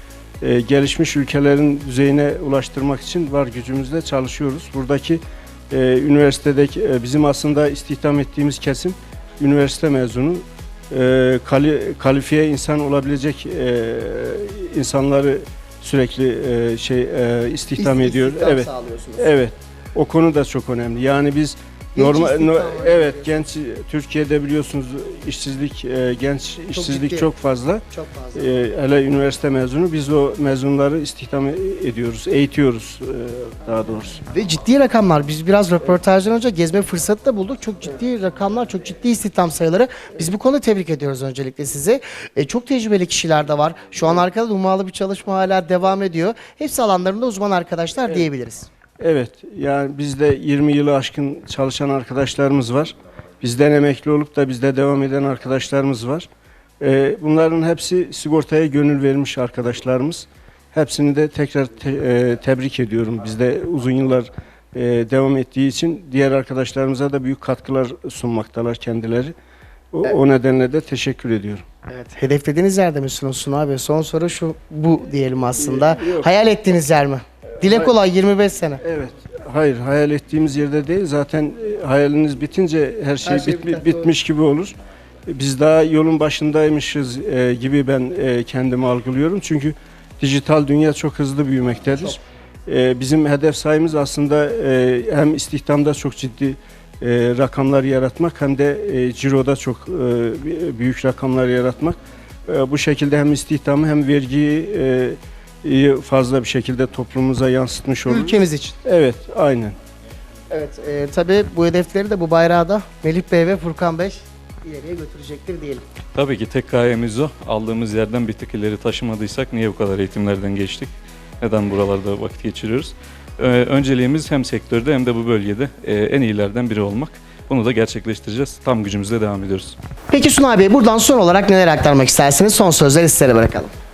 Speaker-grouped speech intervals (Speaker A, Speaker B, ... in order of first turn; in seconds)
Speaker A: 0.4-27.8, 28.3-34.2, 49.0-56.3, 56.8-69.3, 69.9-71.6, 75.6-76.3, 77.6-77.9, 78.8-109.8
Speaker B: 17.8-19.3, 21.9-23.4, 26.7-27.3, 27.9-28.6, 34.3-48.7, 71.9-78.8, 83.2-84.1, 108.1-108.8, 110.5-115.8, 130.1-133.7
Speaker C: 116.1-129.8